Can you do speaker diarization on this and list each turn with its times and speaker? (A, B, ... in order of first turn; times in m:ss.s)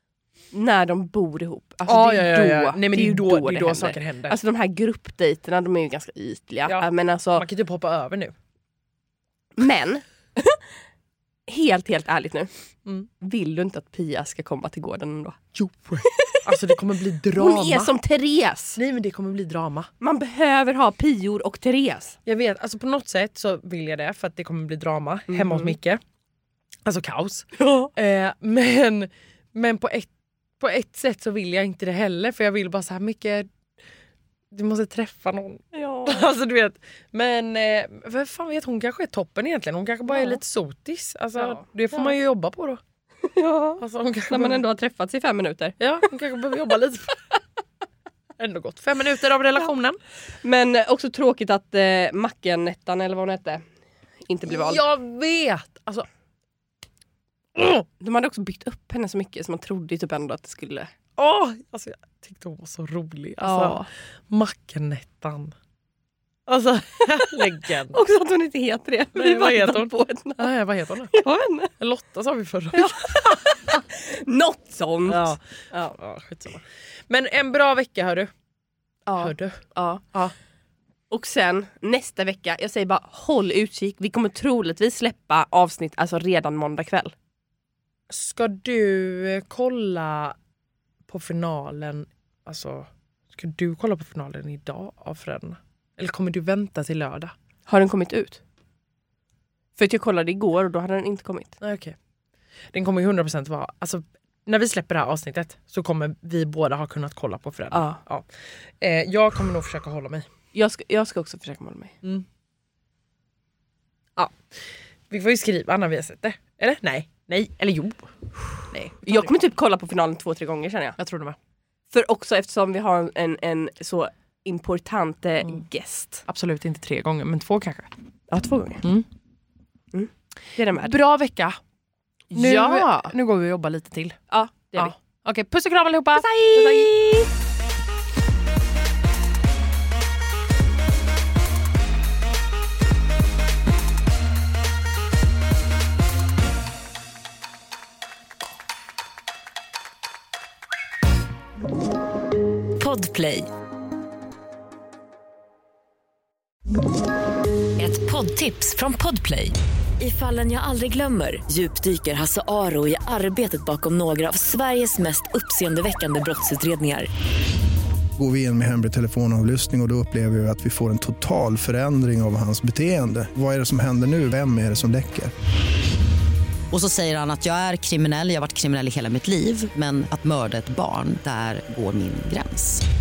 0:00.5-0:07.4 A
0:01.8-0:04.4 B
0:06.7-0:08.3 B
0:09.6-0:10.6 A
0:11.5-0:12.5 A
0:13.2-0:16.4 A
0:15.6-0:17.9 B
0:17.3-0:18.8 A
0:18.8-0:19.9 B
0:20.0-0:22.2 A
0:22.2-0:26.0 B
0:25.3-0:25.8 A
0:26.8-0:30.1 B
0:27.6-0:27.9 A
0:30.6-0:33.5 B
0:34.5-0:42.8 B
0:35.7-0:36.3 A
0:40.1-0:40.4 A
0:41.4-0:42.1 A
0:43.2-0:45.8 A
0:43.8-0:44.6 B
0:45.8-0:47.2 B
0:48.4-0:50.0 B
0:50.4-0:53.6 A
0:54.3-0:54.8 A
0:54.5-0:56.1 B
0:57.6-0:57.8 B
0:58.0-1:00.9 A
1:01.2-1:05.5 B
1:03.4-1:03.9 A
1:06.5-1:08.0 B
1:07.9-1:10.5 A
1:09.1-1:11.2 B
1:11.1-1:11.7 A
1:11.8-1:13.8 B
1:12.7-1:15.9 A
1:15.1-1:18.3 B
1:19.1-1:20.0 A
1:19.2-1:20.3 B
1:21.1-1:27.1 A
1:28.1-1:30.3 B
1:31.1-1:37.3 B
1:37.7-1:38.4 A
1:39.8-1:41.5 A
1:41.6-1:41.9 B
1:42.7-1:48.3 B
1:47.7-1:48.0 A
1:48.8-1:50.2 B
1:50.5-1:52.0 A
1:54.2-1:54.4 B
1:55.1-1:59.3 B
1:59.0-2:01.0 A
2:01.0-2:01.4 B
2:01.9-2:06.2 A
2:06.3-2:07.9 B
2:08.3-2:08.8 A
2:09.9-2:11.0 A
2:10.8-2:11.6 B
2:12.3-2:13.1 A
2:12.3-2:14.2 B
2:14.3-2:14.9 A
2:14.8-2:16.9 B
2:16.1-2:17.3 A
2:32.8-2:33.5 C
2:37.8-2:47.1 C
2:48.2-2:55.3 D
2:56.7-3:02.8 E